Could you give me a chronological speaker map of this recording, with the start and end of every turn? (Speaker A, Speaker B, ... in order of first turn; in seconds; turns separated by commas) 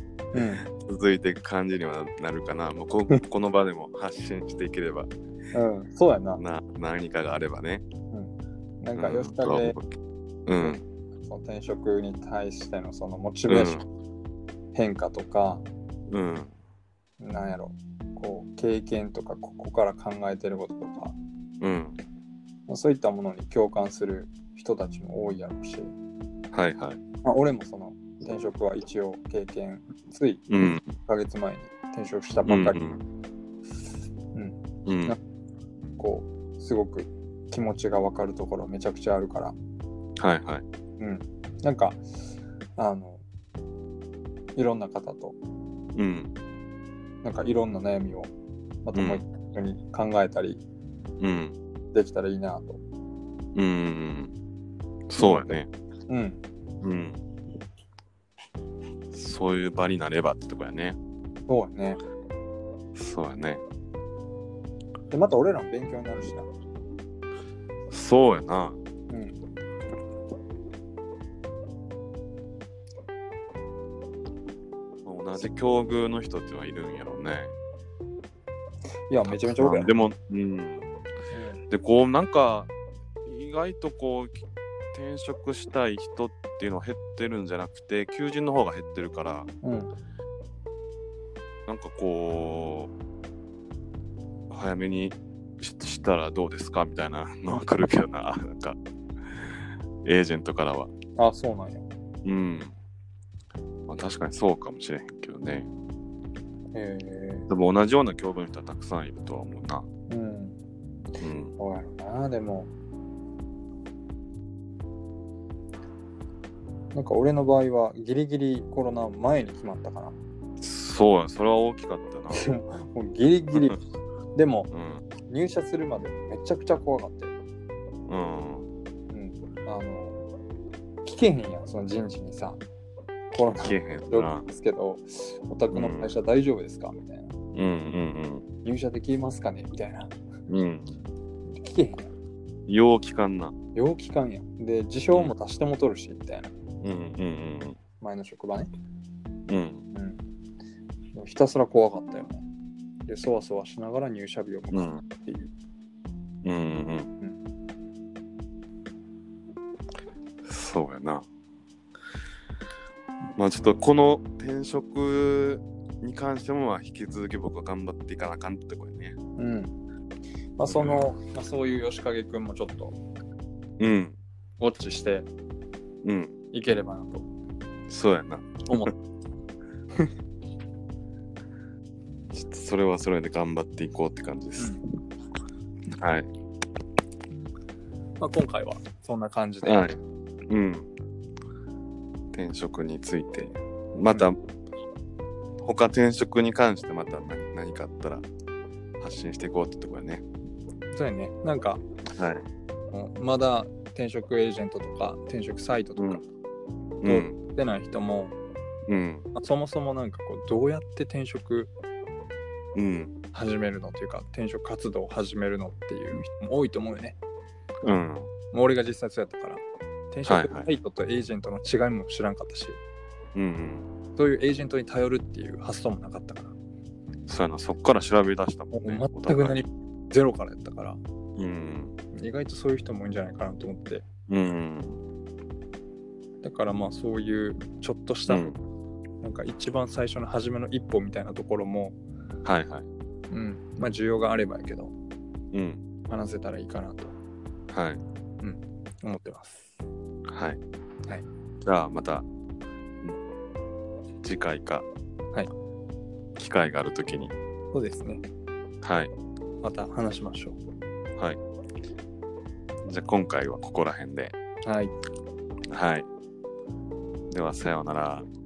Speaker A: 0.3-0.7, Speaker B: 0.7-5.1, Speaker A: 5.5-6.4, Speaker B: 6.4-7.8, Speaker A: 8.1-9.8, Speaker B: 9.0-9.9, Speaker B: 10.5-10.8, Speaker A: 11.2-13.8, Speaker B: 13.5-13.8, Speaker A: 14.7-15.7, Speaker B: 16.1-16.5, Speaker A: 17.2-21.2, Speaker B: 21.6-22.0, Speaker A: 22.7-25.9, Speaker B: 26.5-27.0, Speaker A: 27.2-32.8, Speaker B: 30.5-30.9, Speaker B: 32.5-33.0, Speaker A: 34.3-35.2, Speaker B: 34.9-35.2, Speaker A: 36.0-39.6, Speaker B: 40.2-40.6, Speaker A: 41.0-42.0, Speaker A: 42.8-43.2, Speaker A: 44.6-45.4, Speaker B: 46.0-46.3, Speaker A: 47.2-48.3, Speaker A: 48.8-50.6, Speaker B: 48.9-49.2, Speaker B: 51.2-51.6, Speaker A: 51.9-52.8, Speaker B: 53.5-54.3, Speaker B: 55.1-55.7, Speaker A: 55.2-55.6, Speaker A: 56.1-56.4, Speaker B: 56.8-57.2, Speaker B: 59.1-61.0, Speaker A: 61.5-62.0, Speaker B: 63.0-63.6, Speaker A: 65.1-66.5, Speaker B: 67.9-68.8, Speaker A: 69.1-69.3, Speaker B: 75.0-77.5, Speaker A: 79.1-79.9, Speaker B: 79.3-80.9, Speaker A: 81.3-81.6, Speaker B: 81.7-82.7, Speaker B: 83.2-84.4, Speaker B: 84.9-89.5, Speaker A: 89.6-89.9, Speaker B: 91.7-92.9, Speaker B: 94.5-98.8, Speaker B: 99.3-100.9, Speaker A: 101.2-101.9, Speaker B: 102.2-102.7, Speaker B: 103.9-105.7, Speaker A: 106.7-107.5, Speaker B: 107.5-109.9, Speaker A: 110.1-110.6, Speaker B: 111.2-111.5, Speaker A: 111.6-112.7, Speaker A: 116.9-120.2, Speaker B: 120.6-122.5, Speaker A: 122.3-123.8, Speaker A: 124.3-124.7, Speaker B: 124.7-125.0, Speaker A: 125.3-127.3, Speaker B: 128.1-128.7, Speaker A: 129.1-130.2, Speaker A: 131.0-132.6, Speaker A: 133.3-137.3, Speaker B: 133.6-134.5, Speaker B: 135.7-136.1, Speaker B: 137.5-138.4, Speaker A: 138.6-140.2, Speaker B: 140.5-141.0, Speaker A: 141.5-142.1, Speaker B: 142.7-143.6, Speaker A: 143.8-146.5, Speaker B: 146.8-147.8, Speaker A: 148.0-148.7, Speaker B: 149.5-149.8, Speaker A: 149.9-150.2, Speaker A: 151.1-152.5, Speaker A: 153.1-155.5, Speaker B: 154.7-155.0, Speaker B: 156.4-157.1, Speaker B: 160.4-161.3, Speaker B: 163.4-169.2, Speaker A: 169.4-169.7, Speaker A: 170.6-173.0, Speaker B: 170.7-171.1, Speaker B: 173.8-174.2, Speaker A: 174.6-175.3, Speaker B: 176.0-176.4, Speaker A: 176.5-177.3, Speaker B: 177.9-178.9, Speaker A: 178.7-178.9, Speaker B: 182.3-184.8, Speaker B: 186.0-186.3, Speaker A: 188.2-190.0, Speaker B: 189.6-190.9, Speaker B: 192.3-194.4, Speaker B: 195.6-198.3, Speaker B: 199.0-200.2, Speaker A: 200.9-201.8, Speaker B: 202.1-202.4, Speaker A: 202.9-206.3, Speaker B: 207.0-207.4, Speaker A: 207.1-208.4, Speaker B: 208.9-209.3, Speaker A: 209.3-211.7, Speaker B: 212.8-213.2, Speaker A: 213.3-217.2, Speaker B: 217.8-218.3, Speaker A: 218.5-222.8, Speaker B: 220.3-220.7, Speaker B: 223.3-223.9, Speaker A: 224.2-226.6, Speaker B: 227.3-229.6, Speaker A: 228.7-231.0, Speaker B: 231.4-232.0, Speaker A: 232.1-234.1, Speaker B: 234.3-235.0, Speaker A: 236.4-238.5, Speaker B: 238.3-238.6, Speaker A: 239.2-242.0, Speaker B: 242.4-242.9, Speaker A: 243.3-244.9, Speaker B: 245.5-245.8, Speaker A: 246.1-247.2, Speaker B: 247.7-248.0, Speaker A: 248.4-249.8, Speaker B: 250.3-250.6, Speaker B: 251.6-252.3, Speaker B: 254.2-254.9, Speaker B: 256.4-257.4, Speaker A: 257.7-258.2, Speaker B: 258.8-259.1, Speaker A: 259.6-260.6, Speaker B: 262.9-264.4, Speaker A: 264.6-264.9, Speaker B: 265.7-266.1, Speaker B: 267.3-268.3